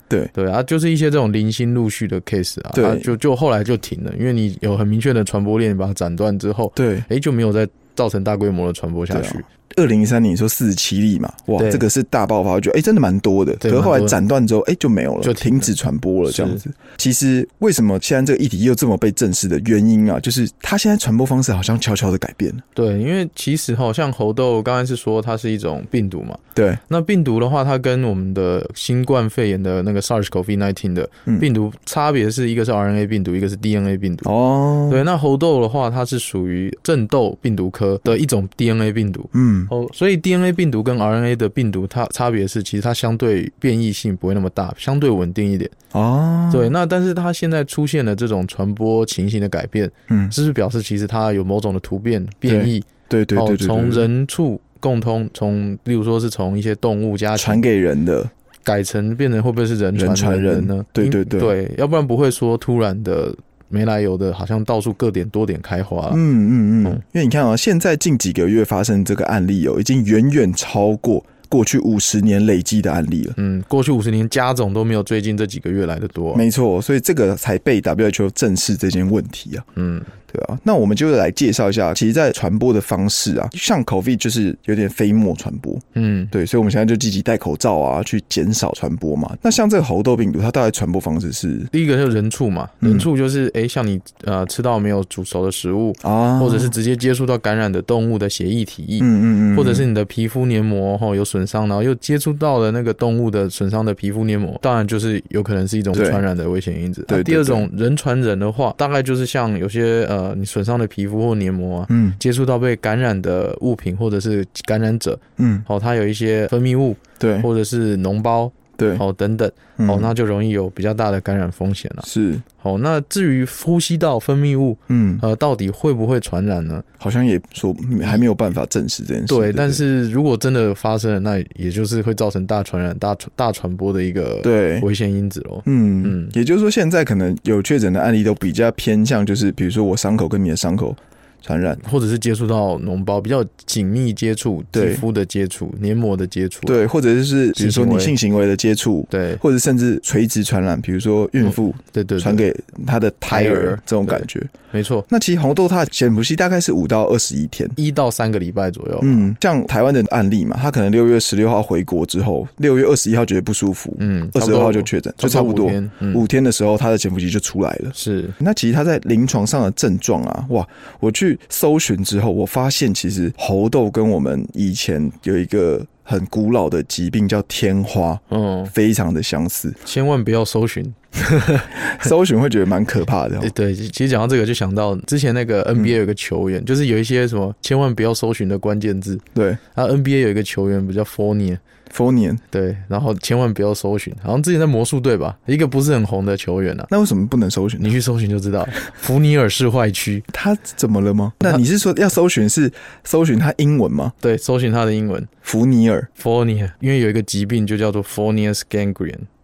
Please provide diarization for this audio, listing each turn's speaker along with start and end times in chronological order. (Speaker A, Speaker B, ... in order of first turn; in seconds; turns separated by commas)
Speaker A: 0.3-9.4, Speaker B: 2.7-3.1, Speaker B: 6.8-7.1, Speaker B: 9.1-22.6, Speaker A: 11.6-11.8, Speaker A: 13.6-14.2, Speaker A: 15.2-15.7, Speaker A: 16.3-16.6, Speaker A: 22.8-34.3, Speaker B: 26.6-26.8, Speaker B: 34.2-35.0, Speaker A: 34.9-45.7, Speaker B: 39.3-39.7, Speaker B: 45.9-46.7, Speaker A: 46.5-57.6, Speaker B: 50.1-50.3, Speaker B: 52.5-54.1, Speaker B: 57.4-58.3, Speaker A: 58.6-66.2, Speaker B: 60.0-61.5, Speaker B: 66.1-73.4, Speaker A: 73.4-76.4, Speaker B: 76.3-79.7, Speaker A: 79.8-80.1, Speaker B: 80.3-91.7, Speaker A: 86.0-86.3, Speaker A: 91.7-122.1, Speaker B: 92.8-93.1, Speaker B: 96.0-96.8, Speaker B: 99.0-99.9, Speaker B: 105.9-106.2, Speaker B: 107.1-107.7, Speaker B: 111.9-112.2, Speaker B: 115.4-115.7, Speaker B: 117.2-117.5, Speaker B: 118.8-119.0, Speaker B: 119.8-120.1, Speaker B: 122.0-122.5, Speaker A: 122.6-126.9, Speaker B: 124.9-125.2, Speaker B: 127.0-129.8, Speaker A: 129.3-136.3, Speaker B: 134.4-134.9, Speaker B: 135.7-141.8, Speaker A: 141.8-146.8, Speaker B: 144.7-145.0, Speaker B: 146.7-154.5, Speaker A: 147.6-148.2, Speaker A: 149.1-149.4, Speaker A: 151.4-152.4, Speaker A: 153.3-155.1, Speaker B: 155.1-157.8, Speaker A: 157.8-159.3, Speaker B: 159.0-179.8, Speaker A: 164.0-166.2, Speaker A: 167.9-168.4, Speaker A: 178.3-178.7, Speaker A: 179.8-181.8, Speaker B: 181.8-183.5, Speaker A: 183.4-191.6, Speaker B: 189.3-189.6, Speaker B: 191.9-192.4, Speaker A: 192.5-196.9, Speaker B: 196.9-197.9, Speaker A: 197.8-200.3, Speaker B: 200.3-204.2, Speaker A: 204.2-205.3, Speaker B: 205.4-206.1, Speaker A: 206.2-209.3